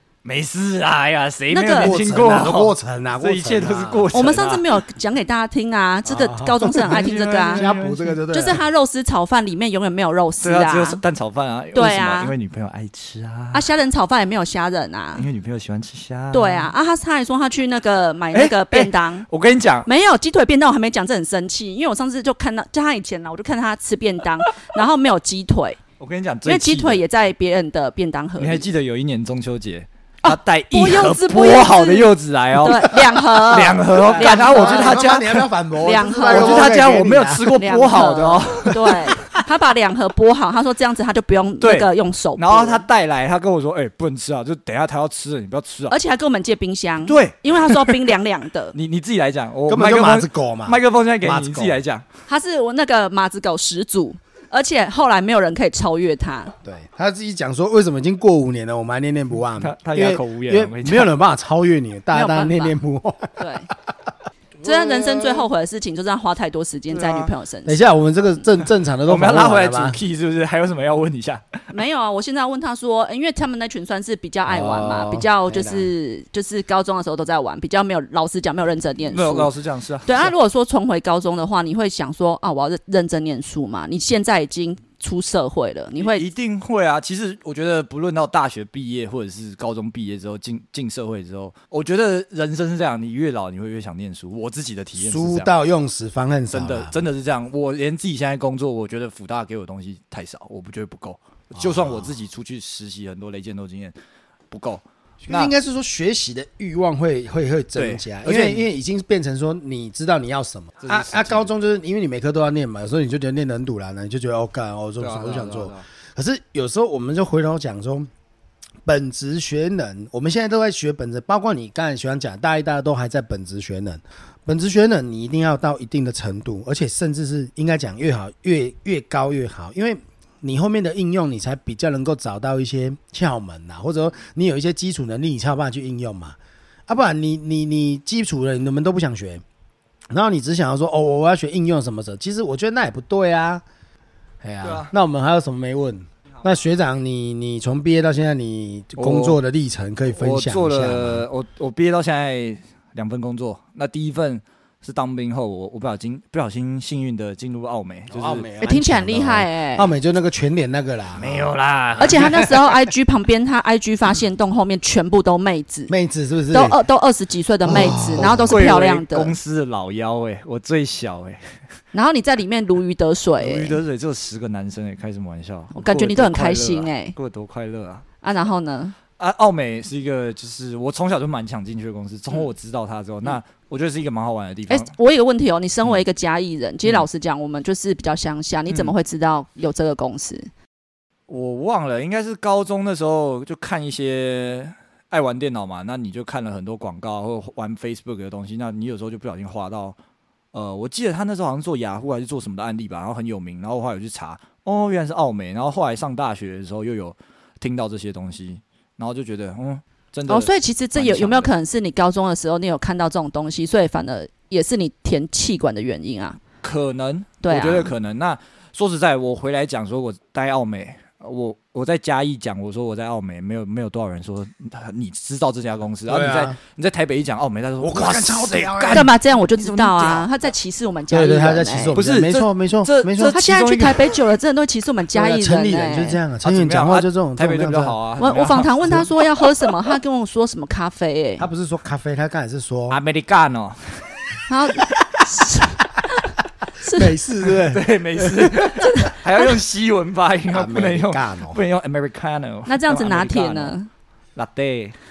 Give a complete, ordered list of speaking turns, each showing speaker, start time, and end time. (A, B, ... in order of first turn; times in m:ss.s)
0:00.2-0:04.6 A
0:01.5-0:01.9 B
0:01.8-0:04.1 C
0:04.1-0:07.6 B
0:06.1-0:07.0 C
0:06.7-0:08.2 A
0:07.5-0:08.6 C
0:08.3-0:11.0 B
0:10.4-0:13.7 A
0:11.7-0:12.3 B
0:13.5-0:15.2 B
0:15.1-0:16.7 A
0:16.3-0:19.3 B
0:18.3-0:19.9 A
0:19.8-0:25.8 B
0:26.0-0:27.0 A
0:26.4-0:28.7 B
0:28.4-0:35.5 A
0:30.2-0:35.0 B
0:33.9-0:37.5 C
0:35.8-0:36.7 B
0:36.3-0:39.3 A
0:37.5-0:42.8 B
0:41.6-0:45.9 A
0:45.9-0:48.7 B
0:47.0-0:48.0 A
0:48.7-0:52.0 A
0:49.7-0:51.8 C
0:52.3-0:56.5 B
0:56.6-1:03.4 C
0:59.6-1:01.1 A
1:02.1-1:02.8 B
1:03.4-1:03.7 B
1:04.6-1:07.8 B
1:04.6-1:05.4 C
1:06.9-1:07.3 A
1:07.6-1:10.0 C
1:09.0-1:11.6 A
1:11.7-1:19.5 B
1:14.5-1:15.9 C
1:19.1-1:20.3 A
1:20.0-1:26.2 B
1:26.0-1:35.5 A
1:35.0-1:36.9 C
1:36.5-1:43.9 A
1:41.5-1:42.1 C
1:44.5-1:45.5 A
1:45.2-1:58.1 C
1:47.8-1:48.6 A
1:50.8-1:51.5 A
1:55.0-1:55.8 A
1:58.8-2:19.4 C
2:20.1-2:23.6 C
2:24.4-2:31.2 C
2:24.6-2:24.9 A
2:29.0-2:29.4 A
2:30.1-2:38.5 A
2:38.1-2:41.4 C
2:38.6-2:39.9 B
2:41.1-2:42.6 A
2:42.0-2:42.5 C
2:42.0-2:45.9 B
2:45.9-2:46.8 C
2:46.5-2:49.3 B
2:47.6-2:48.7 C
2:48.2-2:51.4 A
2:51.9-2:53.8 B
2:53.4-2:58.0 A
2:55.7-2:57.1 B
2:58.2-2:59.0 B
2:59.2-3:04.9 A
3:04.7-3:10.5 B
3:11.3-3:20.0 A
3:20.5-3:31.5 A
3:30.3-3:36.4 B
3:36.6-3:50.3 A
3:37.4-3:37.9 B
3:46.0-3:46.6 C
3:47.8-3:49.1 C
3:48.9-3:52.0 B
3:51.1-3:53.4 C
3:51.9-3:54.2 A
3:53.3-3:56.2 B
3:55.1-3:58.0 C
3:56.4-3:59.0 A
3:58.2-4:01.4 B
4:01.4-4:03.0 C
4:02.9-4:04.2 A
4:04.5-4:07.1 B
4:06.9-4:08.5 C
4:07.6-4:13.7 A
4:08.8-4:09.2 B
4:10.5-4:11.6 C
4:12.7-4:13.9 B
4:14.4-4:15.0 A